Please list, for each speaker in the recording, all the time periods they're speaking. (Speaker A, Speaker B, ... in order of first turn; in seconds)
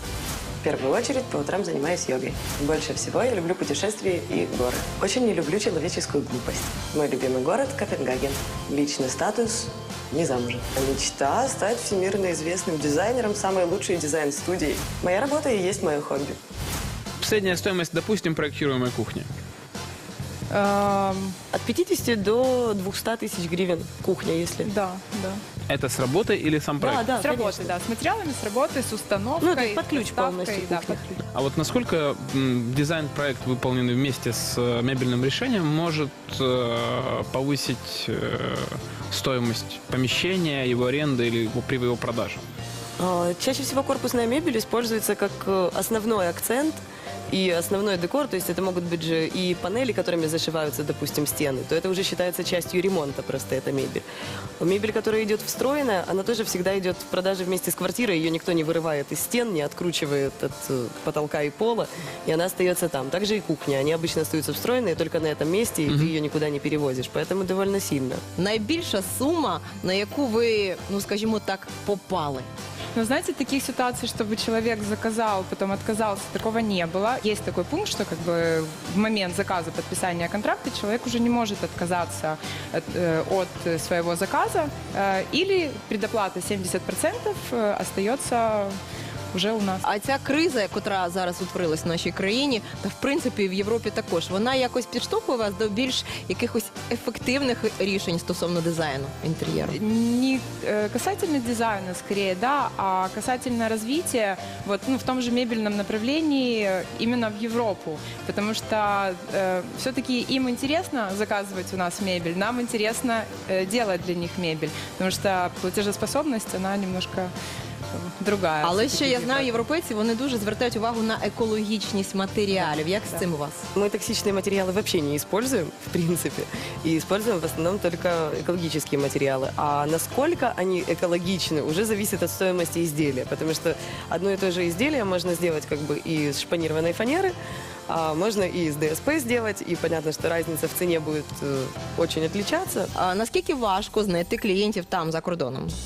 Speaker A: 0.6-16.4, 21.5-24.7, 26.8-27.8, 29.4-31.2, 43.0-54.0, 54.6-68.2, 123.7-137.3, 137.9-142.9
Speaker B: 17.2-19.3, 25.7-27.0, 31.3-42.4
Speaker C: 20.5-21.4, 24.6-25.4, 27.1-31.0, 73.0-88.8, 89.3-89.8, 99.7-117.3, 117.9-119.6, 122.5-123.2
Speaker D: 68.3-72.5, 89.8-99.8, 118.6-123.6, 142.9-145.8